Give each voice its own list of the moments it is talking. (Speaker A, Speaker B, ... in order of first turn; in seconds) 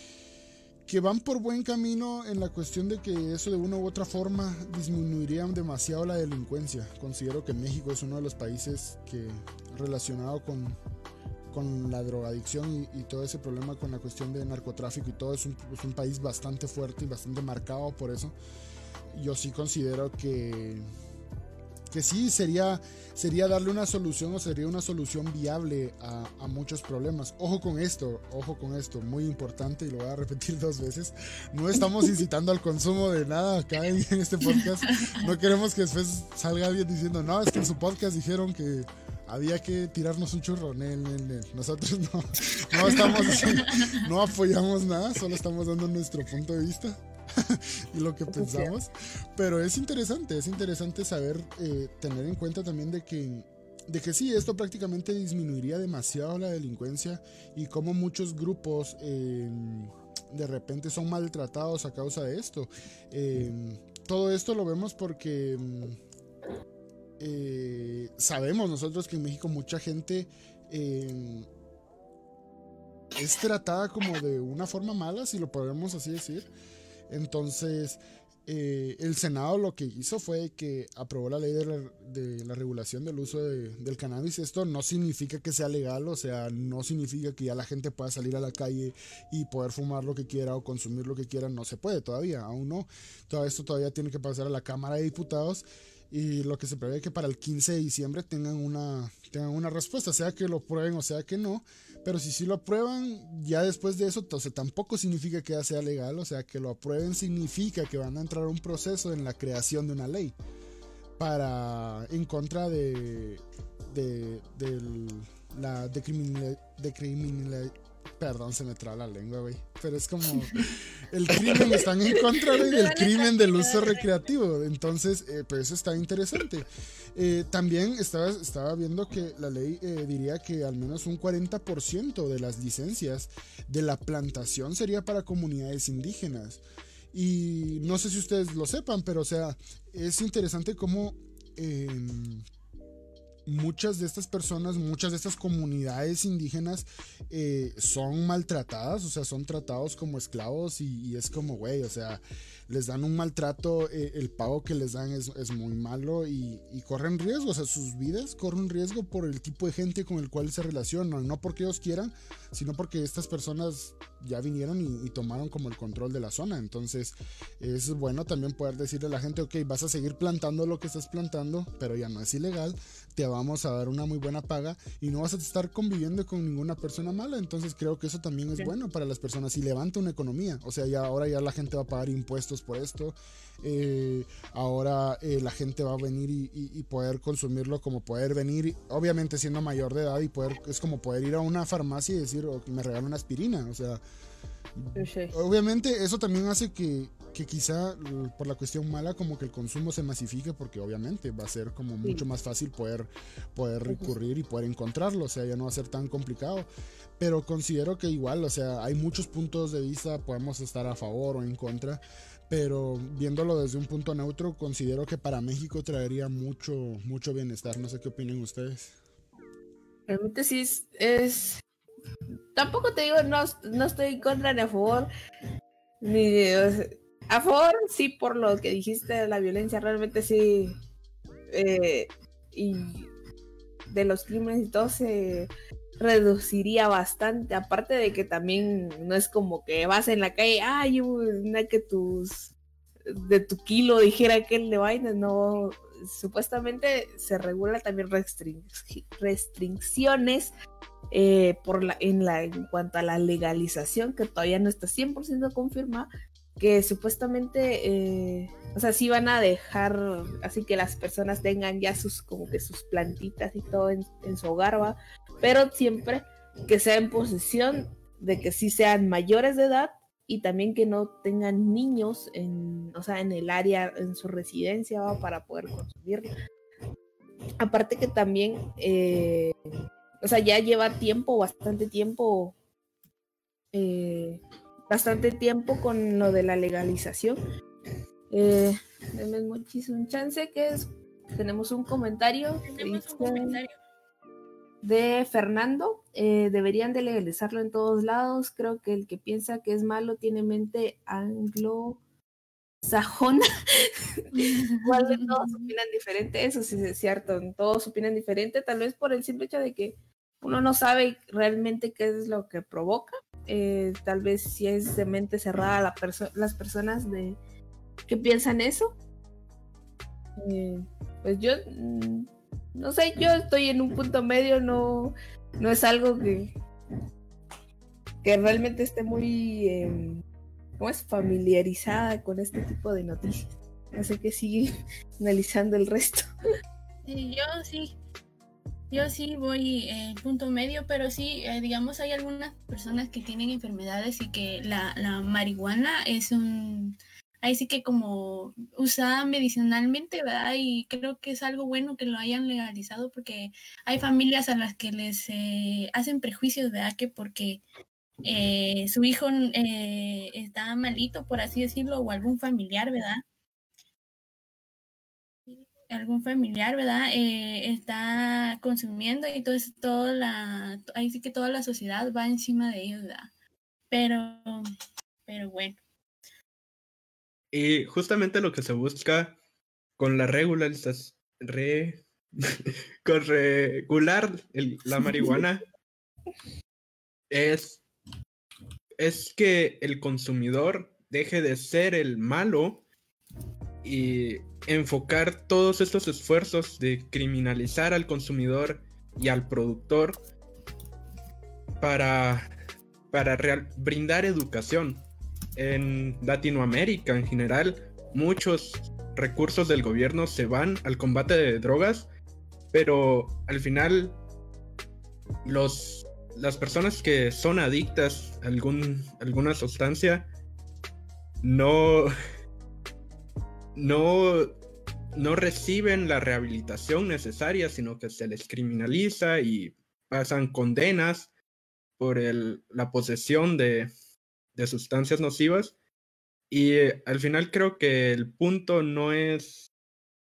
Speaker A: 0.9-10.8, 11.5-18.4, 19.1-20.9, 21.9-66.0, 67.2-71.5, 73.2-76.5, 77.1-110.3, 111.2-136.6, 137.1-142.4, 143.5-194.0, 194.8-206.7, 207.2-218.9
Speaker B: 34.6-35.1, 43.1-43.9, 123.4-123.7, 292.6-293.8, 304.3-305.7, 337.1-337.9, 338.9-357.6, 358.2-363.2, 365.8-373.3, 373.9-374.7, 375.3-375.8
Speaker C: 48.3-48.7, 123.0-123.3, 195.0-195.3, 203.9-204.1, 220.1-221.6, 222.6-225.1, 226.0-230.8, 231.5-233.1, 233.9-242.5, 243.1-250.5, 251.1-256.1, 256.6-276.3, 277.6-279.6, 280.2-282.5, 283.7-287.4, 288.3-293.6, 294.8-302.0, 302.8-303.9, 304.7-317.4, 318.1-319.0, 320.4-326.5, 328.2-330.2, 330.8-336.2
Speaker D: 377.5-379.4, 380.0-382.4, 383.1-385.6, 387.3-387.8, 389.0-392.9, 393.8-400.2, 401.8-402.5, 403.1-412.1, 412.7-414.2, 415.4-420.3, 421.4-422.1, 423.8-424.5, 425.1-431.3, 432.0-433.9, 434.6-435.8, 436.5-439.7